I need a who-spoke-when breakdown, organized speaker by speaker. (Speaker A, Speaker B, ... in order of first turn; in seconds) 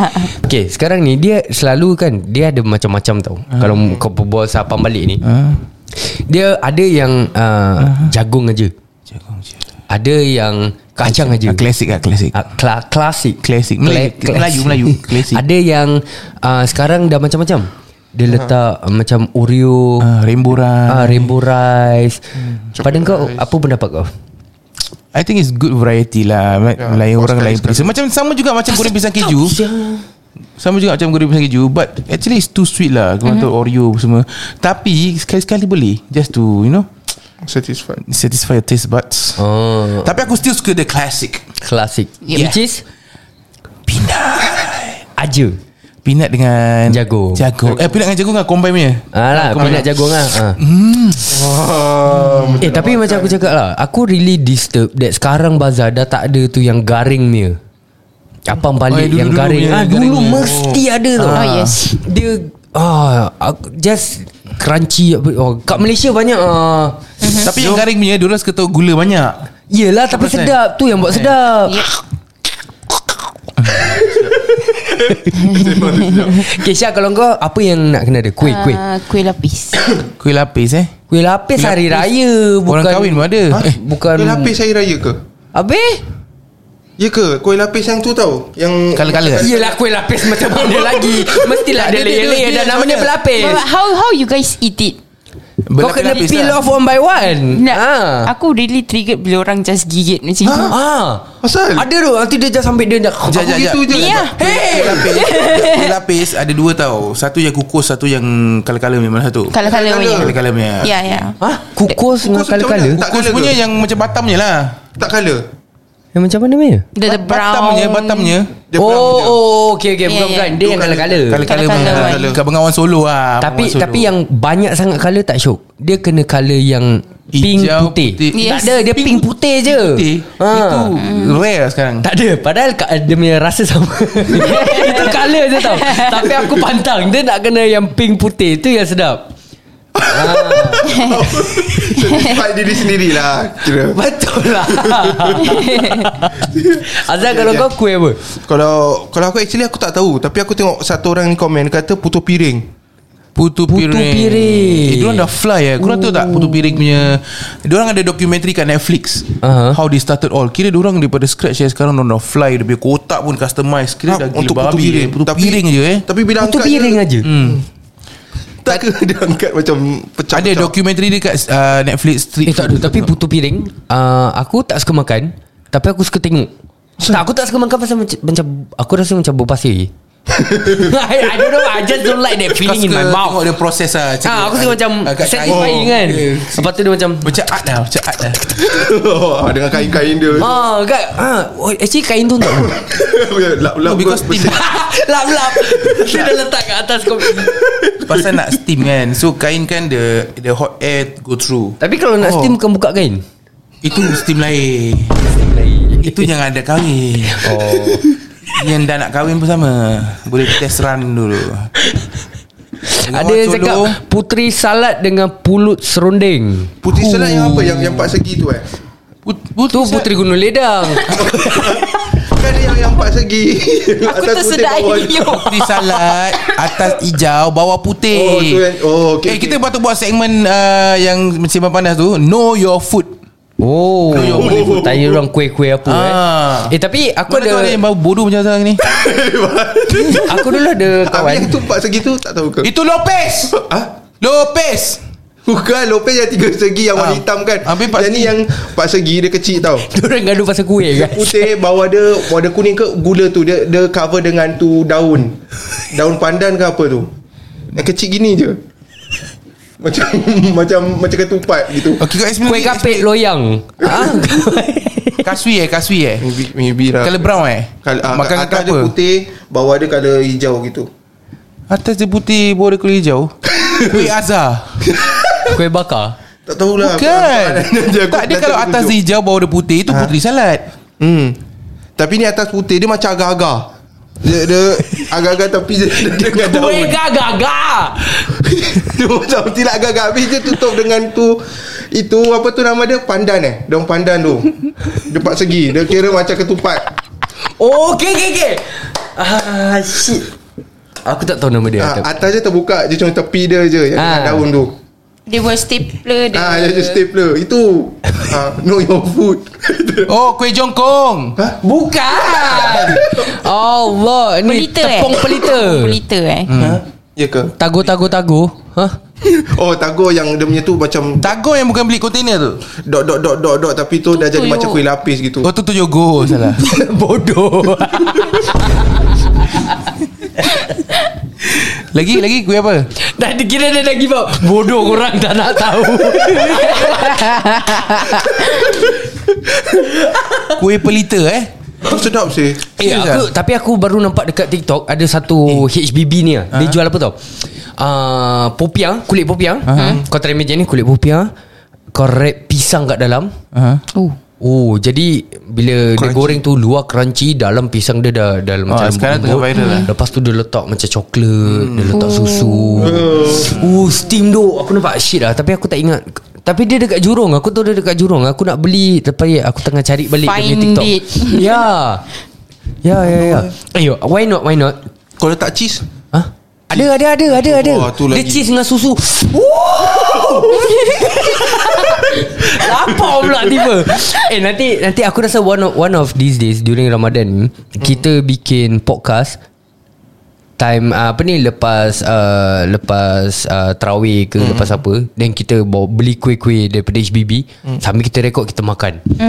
Speaker A: 0.2-5.2, 6.1-8.7, 9.9-11.6, 12.3-20.1, 20.9-22.2, 22.8-24.1, 29.3-30.0, 39.4-40.1, 41.6-42.8, 45.2-45.6, 46.9-47.5, 49.1-50.6, 52.6-57.6, 58.5-67.6, 69.7-71.9, 75.1-75.6, 76.3-78.8, 81.1-84.5, 85.5-86.0, 89.4-93.7, 95.8-98.3, 100.7-103.7, 104.4-105.1, 111.4-113.0, 116.1-116.9, 118.8-121.5, 123.4-131.0, 132.0-139.3, 140.0-141.1, 143.9-148.2, 153.7-156.8, 159.4-159.8, 166.4-167.3, 172.4-176.5, 177.0-179.9, 180.6-183.4, 184.2-187.3, 190.4-192.8, 194.4-197.6, 201.8-203.2, 205.2-206.3, 207.3-208.1, 212.9-216.8, 219.7-221.6, 233.6-237.8, 240.1-241.5, 249.8-251.5, 262.4-265.3, 275.5-276.1, 286.1-288.4, 297.6-300.3, 301.0-302.1, 303.9-304.4, 311.6-316.0, 317.6-319.0, 326.5-329.7, 333.0-338.9, 339.6-340.6, 342.8-347.2, 347.8-351.3, 351.9-353.3, 354.4-372.1, 372.8-374.9, 376.1-389.4, 390.6-399.0
Speaker B: 3.5-3.8, 5.2-5.6, 7.8-8.1, 9.1-9.5, 11.0-12.4, 13.4-15.4, 20.0-21.3, 25.1-29.6, 30.6-36.9, 38.0-39.4, 40.0-41.5, 42.3-42.6, 43.9-45.0, 46.0-51.5, 58.9-61.8, 67.3-69.4, 70.1-70.5, 71.1-71.3, 73.6-74.3, 80.1-80.9, 81.5-82.1, 82.7-83.7, 88.9-89.5, 90.9-93.2, 95.7-96.6, 103.3-111.2, 113.0-114.8, 117.0-118.5, 121.3-124.1, 127.3-132.0, 153.3-166.1, 167.2-167.6, 170.3-173.1, 182.5-186.7, 187.2-188.6, 193.8-194.6, 198.0-201.8, 203.8-205.2, 206.0-207.7, 208.5-211.7, 213.0-214.0, 217.0-218.1, 219.2-220.1, 225.2-228.6, 229.2-233.2, 234.1-234.9, 235.8-236.7, 237.3-238.8, 242.6-243.5, 244.2-245.0, 246.9-248.4, 262.0-263.1, 265.2-266.3, 267.0-268.9, 271.7-274.9, 276.8-280.7, 310.1-311.4, 316.5-316.8, 321.2-322.6, 325.4-326.6, 331.8-332.9, 340.6-341.5, 342.8-343.3, 346.5-346.8, 349.6-350.0, 353.5-353.8, 358.7-359.9, 361.4-362.2
Speaker C: 22.7-23.5, 26.8-27.9, 37.4-38.0, 47.6-47.9, 49.6-49.8, 51.3-53.5, 60.4-60.8, 74.8-76.6, 83.5-85.2, 87.0-89.7, 100.4-100.7, 101.4-101.8, 103.3-105.2, 109.6-110.3, 112.1-113.6, 115.0-115.5, 118.7-119.4, 120.5-122.4, 139.9-144.0, 144.5-145.8, 146.3-147.7, 148.4-152.7, 164.1-167.6, 168.6-170.7, 180.3-180.9, 185.4-185.9, 188.5-190.5, 192.5-194.6, 195.6-196.3, 197.4-198.3, 202.2-202.6, 216.8-218.7, 221.0-225.3, 228.1-229.6, 234.2-235.2, 238.8-242.7, 243.5-243.9, 245.4-249.9, 250.9-255.4, 255.9-257.1, 257.7-258.6, 259.8-262.1, 263.8-264.1, 266.2-267.2, 267.8-270.9, 273.5-274.0, 274.9-275.6, 276.4-278.9, 281.0-281.4, 282.0-287.0, 288.3-296.9, 301.8-304.7, 306.3-310.1, 312.4-313.4, 316.5-317.5, 319.2-321.3, 322.8-325.5, 341.8-342.6, 362.8-363.6, 373.1-373.5, 375.2-375.9, 376.7-378.4, 379.9-383.5, 394.4-394.8
Speaker D: 78.8-79.7, 93.7-95.0, 98.3-100.7, 109.6-110.2, 110.9-111.3, 117.1-118.0